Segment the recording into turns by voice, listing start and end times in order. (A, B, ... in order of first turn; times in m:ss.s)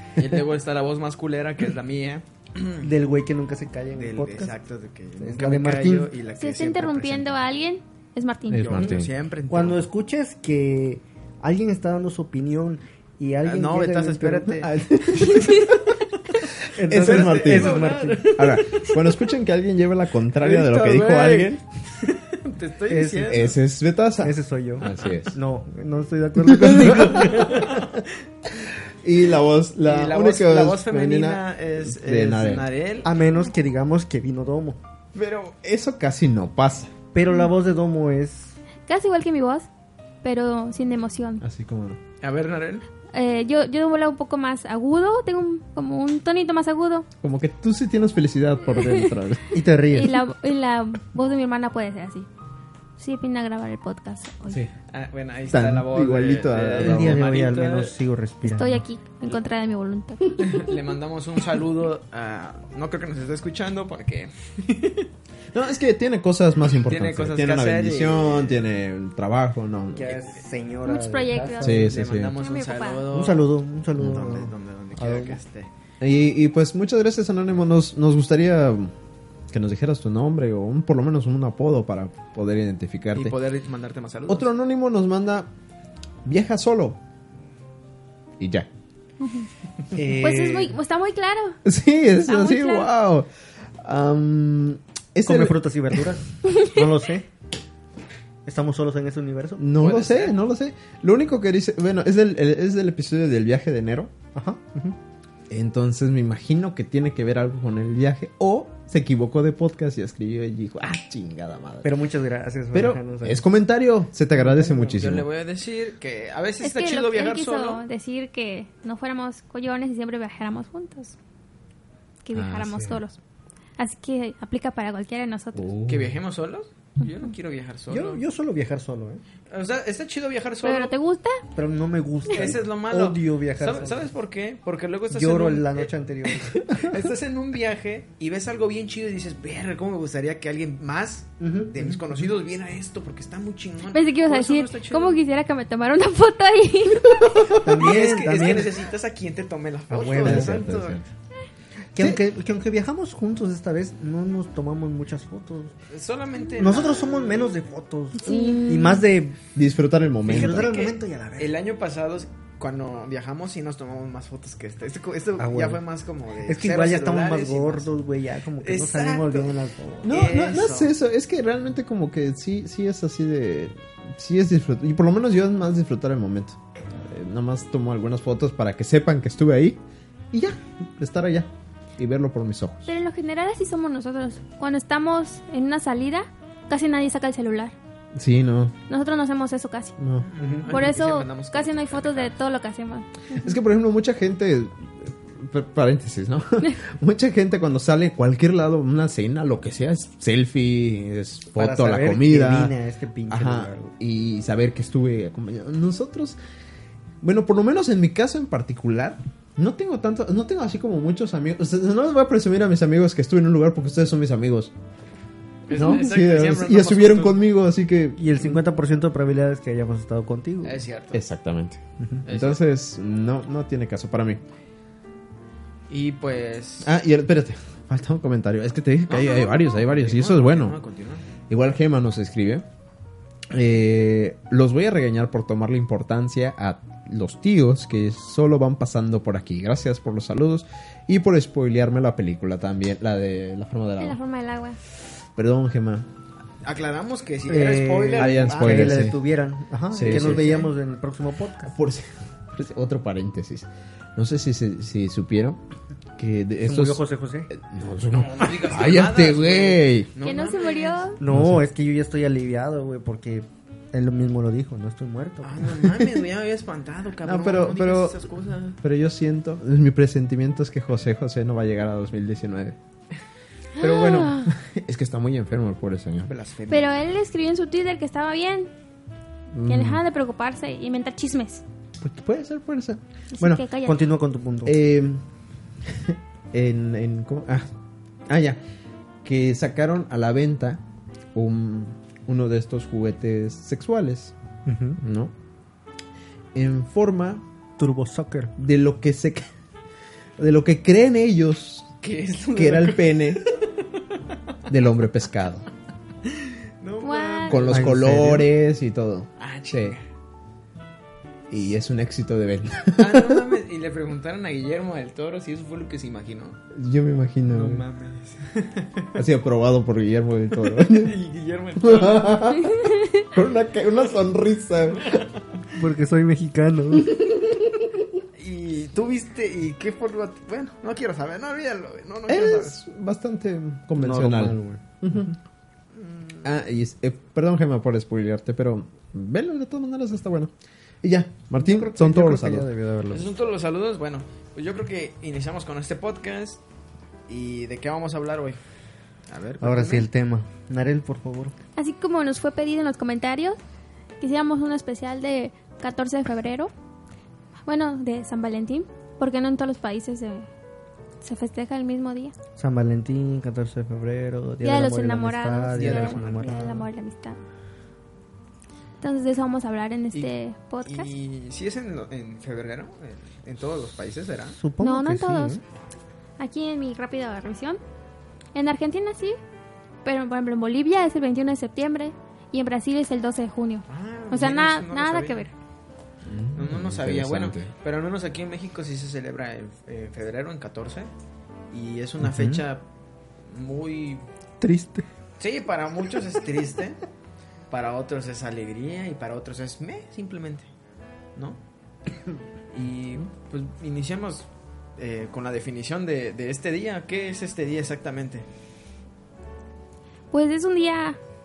0:00.2-0:02.9 A
0:02.8-0:04.5 B
0:03.9-0:07.4 A
0:05.2-0:06.1 B
0:06.4-0:08.9 C
0:08.5-0:09.1 D
0:08.7-0:09.9 A
0:09.5-0:14.7 B
0:13.4-0:14.8 A
0:14.6-0:15.9 D
0:16.7-0:18.4 B
0:16.8-0:17.8 D
0:16.9-0:19.0 A
0:18.3-0:21.6 D
0:20.4-0:23.6 A
0:22.9-0:23.4 B
0:23.3-0:25.4 D
0:24.2-0:27.9 B
0:26.4-0:27.7 D
0:27.2-0:27.8 A
0:28.6-0:32.7 D
0:29.8-0:33.1 A
0:33.0-0:34.8 B
0:35.2-0:35.6 A
0:35.6-0:36.9 D
0:37.1-0:38.6 B
0:38.9-0:39.7 C
0:40.2-0:41.4 C
0:41.4-0:42.0 D
0:42.2-0:42.9 A
0:43.1-0:47.1 C
0:47.2-0:49.5 D
0:48.7-0:49.1 C
0:49.5-0:50.2 B
0:49.9-0:52.3 C
0:53.0-0:54.6 C
0:54.5-0:54.7 D
0:54.9-0:57.9 A
0:55.5-0:57.2 D
0:56.8-0:58.8 B
0:58.4-1:00.6 C
1:00.4-1:05.1 A
1:05.5-1:10.2 D
1:06.8-1:08.6 A
1:09.9-1:12.0 B
1:10.8-1:11.8 C
1:11.6-1:15.7 A
1:11.6-1:12.4 D
1:12.3-1:13.1 C
1:13.1-1:15.4 B
1:16.0-1:18.9 D
1:19.5-1:23.4 D
1:23.2-1:24.5 A
1:24.3-1:25.5 D
1:26.2-1:27.0 D
1:28.4-1:28.7 D
1:29.2-1:29.5 C
1:29.9-1:30.8 B
1:30.2-1:31.6 C
1:31.6-1:35.6 D
1:32.3-1:32.9 C
1:35.3-1:37.3 B
1:38.4-1:39.7 B
1:39.6-1:44.1 D
1:39.8-1:40.4 A
1:44.4-1:45.0 B
1:45.5-1:52.0 D
1:51.8-1:53.5 B
1:52.7-1:55.3 D
1:54.6-1:57.8 A
1:56.6-2:01.2 C
2:02.2-2:03.2 C
2:02.3-2:03.0 D
2:03.8-2:05.7 C
2:05.5-2:06.2 D
2:05.9-2:08.2 A
2:07.9-2:09.2 B
2:09.5-2:10.9 A
2:10.6-2:11.4 C
2:11.6-2:14.0 B
2:12.3-2:25.2 A
2:15.1-2:16.9 B
2:21.4-2:22.0 B
2:23.9-2:27.5 C
2:27.5-2:31.0 A
2:27.6-2:28.8 B
2:29.9-2:30.7 B
2:30.2-2:31.0 D
2:32.0-2:35.8 B
2:35.9-2:37.5 A
2:36.6-2:39.4 B
2:38.2-2:39.0 C
2:38.3-2:38.7 D
2:39.5-2:40.7 D
2:40.3-2:41.6 B
2:40.3-2:47.9 A
2:45.4-2:45.8 B
2:46.4-2:50.2 B
2:48.6-2:50.9 A
2:50.0-2:59.8 D
3:00.3-3:02.9 D
3:02.9-3:07.7 C
3:08.1-3:08.7 D
3:08.9-3:10.0 C
3:10.0-3:10.3 D
3:10.2-3:12.4 A
3:10.4-3:10.7 B
3:10.7-3:13.5 C
3:13.3-3:22.8 D
3:21.6-3:23.9 B
3:23.3-3:26.4 D
3:27.2-3:34.7 D
3:35.7-3:37.4 A
3:35.7-3:36.0 C
3:35.7-3:38.6 D
3:38.2-3:40.8 B
3:40.6-3:41.2 A
3:41.1-3:44.4 D
3:42.3-3:42.6 A
3:45.9-3:46.9 A
3:46.8-3:50.8 D
3:49.1-3:51.2 A
3:51.5-3:52.7 D
3:53.5-4:04.2 D
4:04.0-4:04.8 C
4:05.4-4:06.1 D
4:06.6-4:09.1 A
4:07.5-4:11.7 B
4:08.2-4:09.2 D
4:09.9-4:10.7 D
4:09.9-4:10.7 A
4:11.7-4:15.6 D
4:16.2-4:20.1 D
4:16.6-4:17.5 B
4:18.1-4:21.1 A
4:20.2-4:21.2 C
4:21.2-4:25.8 B
4:21.3-4:21.6 D
4:25.4-4:28.8 A
4:27.2-4:28.2 D
4:28.8-4:32.8 D
4:33.8-4:34.5 C
4:33.8-4:36.3 D
4:36.3-4:37.0 A
4:36.7-4:38.7 C
4:39.5-4:40.0 D
4:39.7-4:41.6 C
4:42.0-4:43.0 D
4:43.3-4:44.0 C
4:43.4-4:44.8 B
4:44.6-4:45.2 D
4:45.8-4:47.7 D
4:48.3-4:48.6 D
4:49.2-4:50.8 D
4:51.3-4:54.3 D
4:54.7-4:55.0 B
4:55.0-4:55.3 D
4:56.5-4:57.4 D
4:57.8-4:58.5 B
4:58.6-4:59.5 D
5:00.4-5:01.9 D
5:02.0-5:04.1 A
5:02.5-5:03.4 D
5:04.7-5:05.7 D
5:06.2-5:07.9 A
5:07.0-5:07.6 C
5:07.5-5:10.0 D
5:07.7-5:08.5 B
5:09.4-5:10.0 A
5:11.5-5:13.4 D
5:13.0-5:16.6 A
5:16.7-5:17.8 D
5:17.5-5:19.2 A
5:19.2-5:21.2 D
5:20.8-5:22.7 A
5:21.8-5:25.3 D
5:25.0-5:25.3 A
5:25.7-5:27.2 B
5:28.4-5:32.8 A
5:32.3-5:35.3 D
5:34.0-5:35.4 B
5:36.4-5:40.5 D
5:41.0-5:42.7 D
5:41.6-5:43.3 B
5:43.1-5:46.6 A
5:47.3-5:48.6 A
5:49.3-5:50.1 A
5:49.6-5:51.6 B
5:51.8-5:53.6 C
5:54.2-5:56.7 C
5:57.7-6:00.5 C
6:01.2-6:02.4 C
6:02.6-6:06.9 B
6:04.6-6:07.4 C
6:05.7-6:06.5 A
6:09.0-6:11.1 C
6:10.8-6:14.6 A
6:14.6-6:15.6 B
6:14.8-6:15.6 C
6:16.4-6:17.8 C
6:18.6-6:19.4 C
6:20.0-6:25.5 C
6:23.9-6:25.4 A
6:26.3-6:27.7 D
6:26.6-6:31.1 A
6:31.7-6:32.8 A
6:32.2-6:32.6 B
6:33.5-6:34.2 A
6:34.6-6:35.1 B
6:35.4-6:37.0 A
6:37.7-6:40.7 A
6:42.7-6:48.5 A
6:50.3-6:51.2 C